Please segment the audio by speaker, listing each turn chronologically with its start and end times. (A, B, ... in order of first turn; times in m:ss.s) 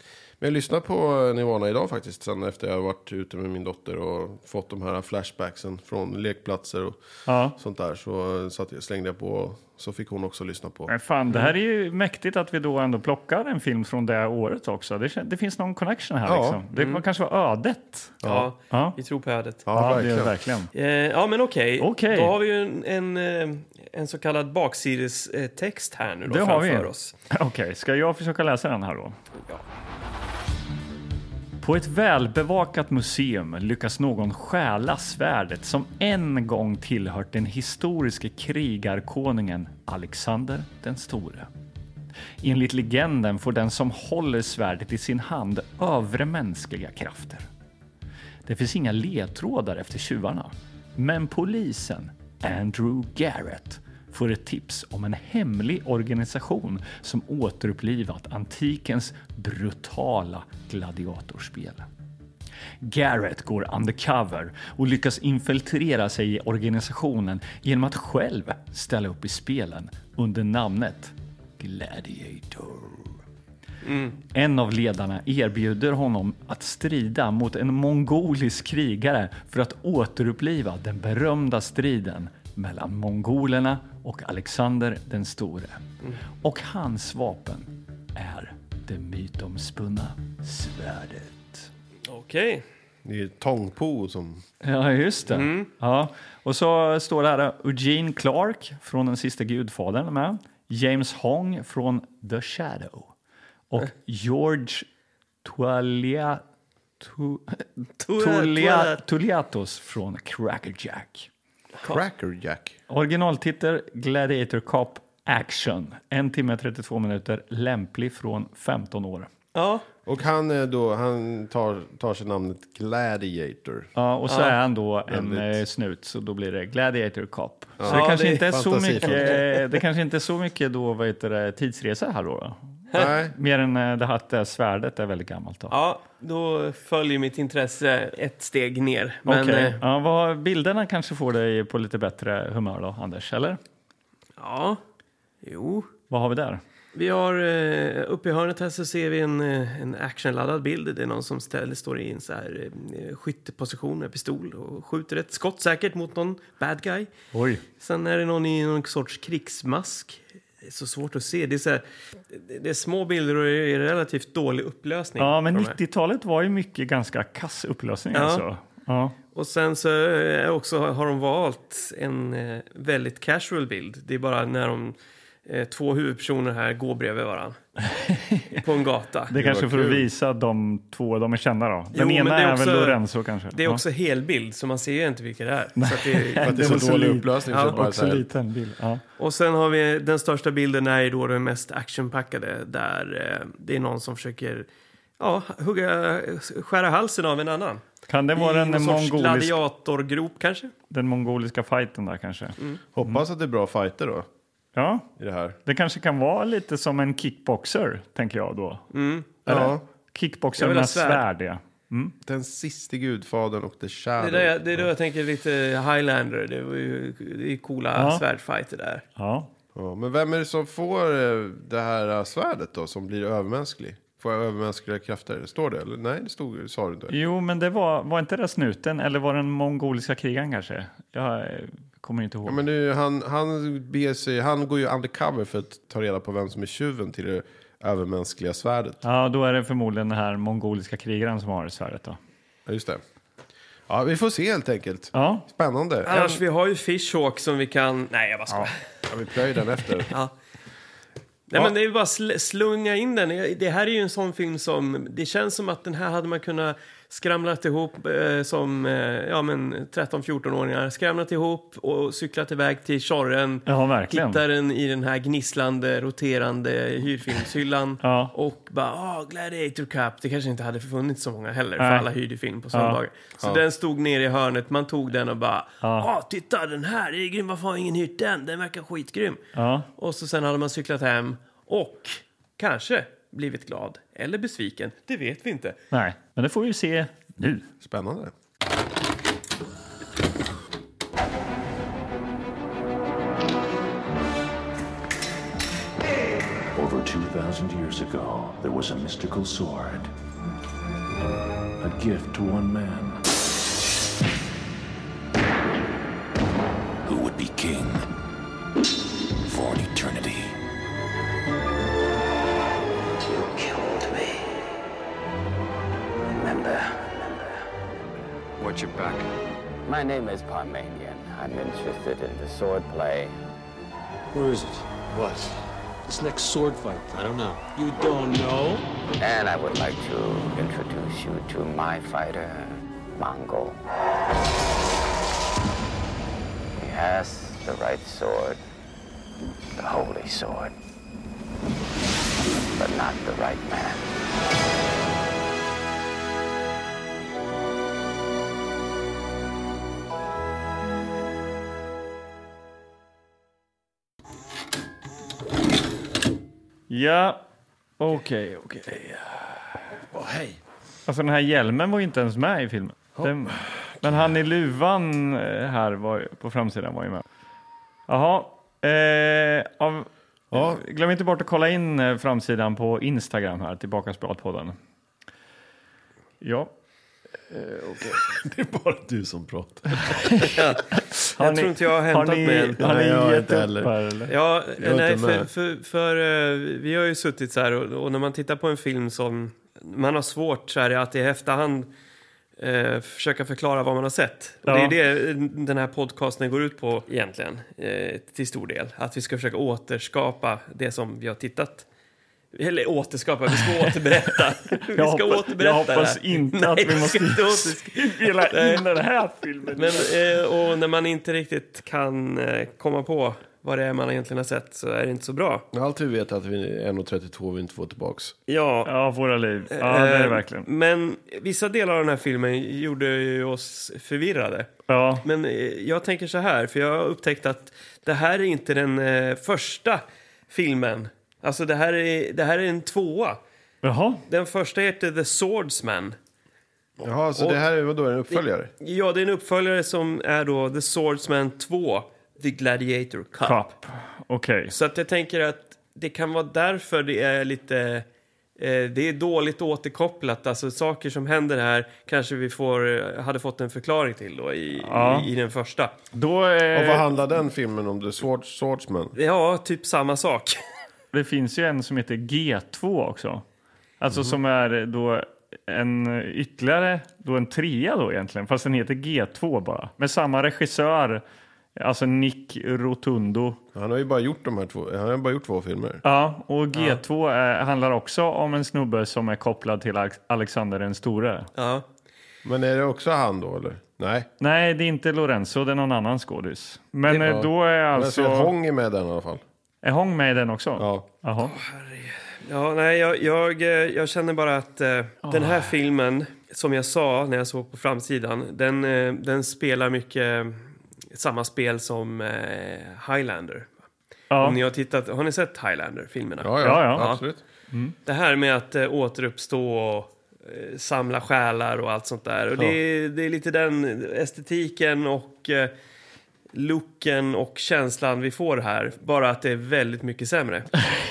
0:00.4-0:07.0 A
0:07.3-0:07.6 B
0:07.5-0:10.9 A
0:10.9-0:19.0 B
0:16.2-0:16.6 A
0:16.7-0:17.0 C
0:18.2-0:18.5 A
0:18.2-0:19.6 C
0:19.7-0:20.4 A
0:19.7-0:20.7 B
0:20.7-0:27.1 C
0:21.8-0:22.4 B
0:26.3-0:29.2 B
0:31.6-0:41.5 B
0:42.4-0:47.5 B
0:48.5-1:01.9 B
1:02.8-1:13.2 B
1:13.8-1:14.2 C
1:14.3-1:25.8 B
1:26.4-1:31.7 B
1:32.1-1:32.6 C
1:33.0-1:34.4 A
1:34.6-1:43.1 B
1:35.3-1:35.7 C
1:43.7-1:44.9 B
1:45.4-1:46.4 B
1:47.0-1:51.3 B
1:48.0-1:49.0 C
1:51.8-1:52.8 A
1:52.9-1:59.3 B
1:59.6-1:59.8 C
2:00.1-2:03.9 A
2:04.0-2:15.7 B
2:04.3-2:04.5 C
2:05.1-2:05.6 A
2:07.8-2:09.4 A
2:07.9-2:08.4 C
2:09.0-2:09.4 C
2:12.9-2:13.3 A
2:15.7-2:19.8 C
2:19.3-2:23.6 B
2:24.4-2:24.8 C
2:25.4-2:25.9 C
2:26.1-2:26.6 B
2:27.0-2:37.1 C
2:37.3-2:37.6 B
2:37.8-2:45.8 C
2:45.2-2:49.2 B
2:48.1-2:48.4 C
2:49.3-2:57.6 C
2:57.9-2:58.6 B
2:58.6-2:59.3 C
2:59.3-3:03.8 B
2:59.3-3:00.1 A
3:01.9-3:03.0 C
3:03.5-3:06.9 C
3:05.8-3:09.0 B
3:06.4-3:08.3 A
3:07.5-3:07.8 C
3:09.2-3:14.7 C
3:15.2-3:17.8 C
3:18.1-3:19.6 B
3:18.4-3:20.7 C
3:20.9-3:23.2 B
3:22.9-3:24.3 A
3:24.8-3:25.1 B
3:25.2-3:25.6 A
3:25.7-3:28.8 B
3:28.9-3:29.4 C
3:29.5-3:32.1 B
3:29.5-3:29.8 A
3:30.6-3:31.2 C
3:32.2-3:34.9 A
3:34.2-3:39.0 C
3:38.0-3:38.2 B
3:39.2-3:39.5 B
3:39.8-3:47.1 A
3:47.1-3:52.6 B
3:52.5-3:59.0 A
3:59.0-4:02.2 B
4:02.7-4:03.0 A
4:03.9-4:06.4 A
4:05.1-4:05.4 B
4:06.1-4:08.7 C
4:09.1-4:10.1 A
4:11.5-4:39.4 C
4:23.7-4:24.4 B
4:28.0-4:28.3 B
4:31.8-4:32.1 B
4:32.7-4:33.0 B
4:35.8-4:36.1 B
4:39.6-4:39.9 B
4:40.0-4:45.8 C
4:45.9-4:47.7 B
4:47.8-4:48.3 A
4:56.8-5:00.1 D
5:01.8-5:03.2 D
5:07.0-5:08.1 D
5:09.5-5:10.6 D
5:13.2-5:14.6 E
5:16.2-5:17.6 E
5:18.6-5:19.2 E
5:19.8-5:23.3 E
5:24.3-5:28.8 F
5:29.2-5:33.8 E
5:36.8-5:38.6 E
5:39.8-5:40.7 E
5:42.7-5:44.1 E
5:56.9-5:57.4 B
5:58.0-5:59.8 B
6:00.1-6:00.6 A
6:01.1-6:07.2 B
6:03.2-6:03.6 A
6:08.1-6:14.8 B
6:10.5-6:10.8 A
6:16.4-6:16.7 B
6:17.5-6:20.4 A
6:20.0-6:24.3 B
6:20.5-6:22.8 C
6:22.8-6:23.9 A
6:24.3-6:31.9 C
6:24.8-6:25.5 A
6:32.6-6:41.9 C
6:34.7-6:35.0 B
6:42.5-6:48.8 C
6:44.9-6:50.1 B
6:49.7-6:55.7 C
6:55.7-6:58.4 A
6:58.5-6:58.9 C
6:58.9-7:00.7 B
6:59.7-7:04.7 C
7:04.9-7:05.2 B
7:05.2-7:13.4 C
7:13.8-7:14.2 B
7:14.3-7:16.2 C
7:17.0-7:18.7 A
7:18.3-7:23.6 C
7:23.4-7:24.7 B
7:24.7-7:28.1 C
7:28.6-7:36.0 C
7:34.8-7:35.3 B
7:36.1-7:37.1 B
7:36.7-7:39.2 A
7:39.2-7:40.6 C
7:41.1-7:43.4 B
7:44.0-7:51.2 B
7:51.8-7:53.6 B
7:53.7-7:56.0 A
7:56.0-8:01.5 B
7:56.8-7:57.0 C
8:01.6-8:01.8 C
8:02.4-8:04.3 A
8:04.4-8:08.5 B
8:07.1-8:09.4 A
8:09.8-8:11.6 B
8:10.8-8:11.1 A
8:11.4-8:23.8 C
8:15.3-8:15.7 B
8:24.3-8:24.6 B
8:24.4-8:27.2 C
8:26.4-8:27.4 A
8:26.6-8:27.1 B
8:28.1-8:35.7 C
8:36.5-8:40.7 C